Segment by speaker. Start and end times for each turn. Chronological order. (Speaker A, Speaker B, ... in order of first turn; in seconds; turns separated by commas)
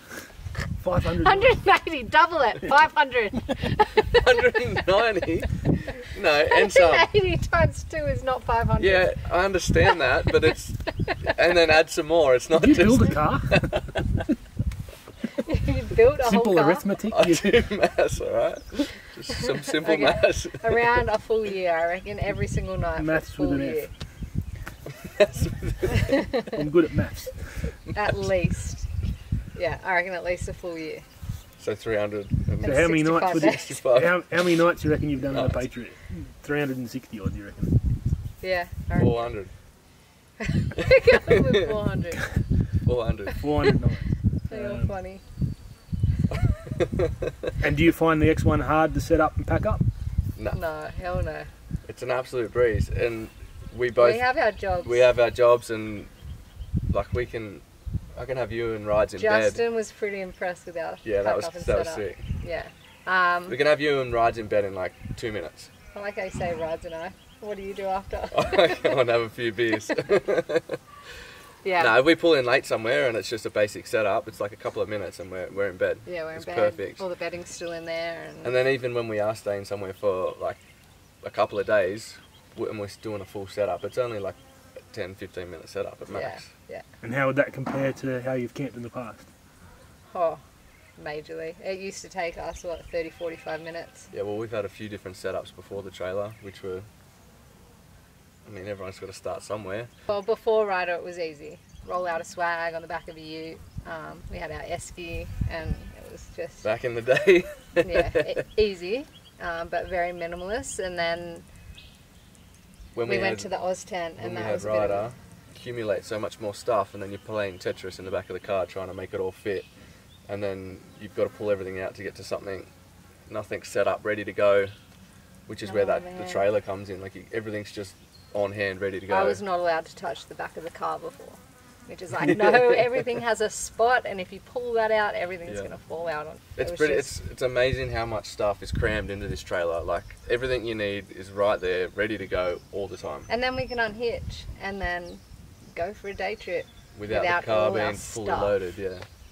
Speaker A: 0.8-1.5, Speaker B: 1.2-4.6, Speaker C: 4.2-7.1, Speaker B: 6.5-9.2, Speaker C: 8.8-13.8, Speaker B: 11.1-11.3, Speaker A: 12.6-13.7, Speaker B: 15.3-16.9, Speaker A: 16.2-17.6, Speaker C: 17.1-20.9, Speaker B: 19.8-23.9, Speaker A: 22.9-23.9, Speaker C: 25.2-26.1, Speaker B: 26.0-26.5, Speaker A: 26.5-27.6, Speaker B: 27.9-28.9, Speaker B: 29.5-31.0, Speaker C: 31.6-34.2, Speaker B: 32.6-33.8, Speaker A: 32.6-37.7, Speaker C: 35.3-35.6, Speaker B: 38.4-39.3, Speaker C: 39.0-39.5, Speaker B: 40.4-42.3, Speaker C: 42.8-43.7, Speaker A: 43.4-44.9, Speaker B: 44.5-45.2, Speaker C: 46.8-47.1, Speaker A: 47.6-49.8, Speaker B: 50.5-51.5, Speaker C: 51.9-54.3, Speaker B: 54.0-55.1, Speaker C: 54.8-56.1, Speaker C: 56.9-57.6, Speaker C: 58.1-59.6, Speaker B: 59.1-63.6, Speaker C: 61.0-62.2, Speaker C: 63.5-65.7, Speaker B: 65.9-69.0, Speaker C: 68.3-70.8, Speaker B: 71.6-72.0, Speaker C: 71.8-77.0, Speaker B: 76.0-78.5, Speaker C: 78.4-80.6, Speaker C: 81.2-84.4, Speaker C: 84.9-86.5, Speaker B: 86.1-86.8, Speaker A: 87.0-89.3, Speaker B: 90.1-90.4, Speaker B: 91.0-94.1, Speaker C: 94.1-96.8, Speaker C: 98.4-99.9, Speaker B: 100.1-106.7, Speaker C: 106.6-108.3, Speaker B: 107.8-111.5, Speaker C: 112.9-113.5, Speaker B: 113.0-115.1, Speaker C: 114.2-119.7, Speaker C: 120.3-122.7, Speaker C: 123.3-124.7, Speaker C: 125.5-129.4, Speaker B: 125.6-126.5, Speaker B: 129.1-137.1, Speaker C: 136.6-143.3, Speaker B: 143.3-145.2, Speaker B: 145.7-148.7, Speaker C: 146.9-149.1